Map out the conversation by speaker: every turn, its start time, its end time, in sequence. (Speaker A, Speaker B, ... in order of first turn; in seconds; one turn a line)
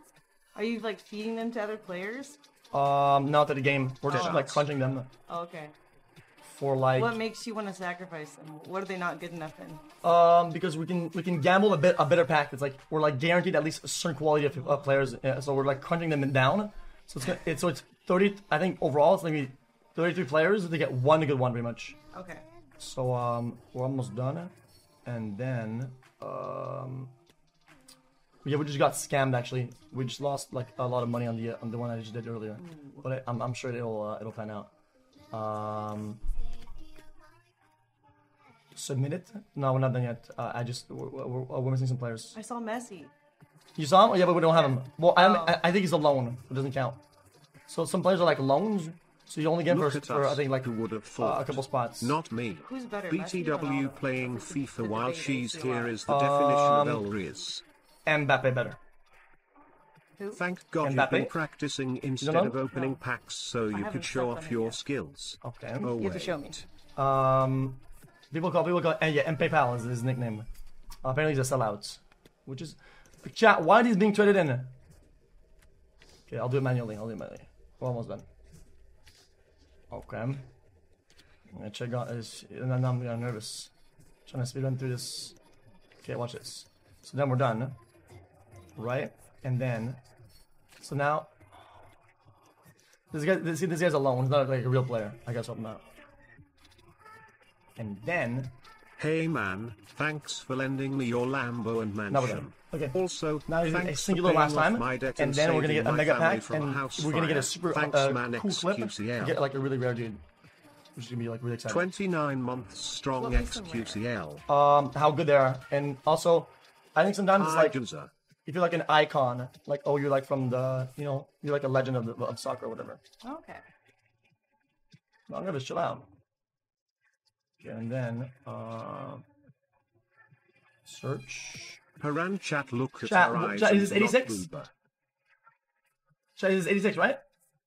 Speaker A: 0.6-2.4
Speaker B: 2.7-5.1
Speaker C: 4.1-4.7
Speaker A: 4.1-4.5
Speaker A: 5.3-5.8
Speaker B: 6.4-7.2
Speaker A: 7.0-9.8
Speaker B: 10.0-22.0
Speaker A: 22.1-22.5
Speaker B: 22.8-24.5
Speaker B: 25.1-27.1
Speaker B: 28.4-34.7
Speaker A: 32.6-33.0
Speaker B: 35.3-36.2
Speaker B: 38.7-42.4
Speaker A: 42.3-43.1
Speaker B: 43.8-47.0
Speaker A: 44.5-45.6
Speaker B: 47.7-52.2
Speaker C: 49.7-57.6
Speaker A: 52.6-56.0
Speaker B: 56.1-57.1
Speaker B: 58.1-58.8
Speaker A: 60.2-60.4
Speaker C: 60.3-66.7
Speaker B: 60.8-61.4
Speaker B: 62.2-62.6
Speaker A: 62.7-63.0
Speaker A: 63.7-64.8
Speaker B: 65.4-66.0
Speaker A: 66.0-66.6
Speaker B: 67.0-70.5
Speaker B: 71.0-74.7
Speaker B: 76.3-78.3
Speaker B: 79.9-80.5
Speaker B: 81.5-83.7
Speaker B: 84.3-85.4
Speaker B: 86.0-87.8
Speaker B: 88.8-90.0
Speaker B: 90.8-91.3
Speaker B: 93.1-95.8
Speaker B: 97.8-98.5
Speaker C: 99.0-109.4
Speaker B: 102.1-110.2
Speaker B: 111.0-111.9
Speaker C: 111.7-114.4
Speaker A: 113.2-114.0
Speaker B: 114.5-117.8
Speaker C: 117.4-118.1
Speaker B: 118.5-123.0
Speaker A: 123.2-123.6
Speaker B: 125.3-126.1
Speaker B: 127.6-129.2
Speaker B: 130.8-131.8
Speaker C: 132.0-134.7
Speaker B: 133.0-134.5
Speaker B: 136.4-137.2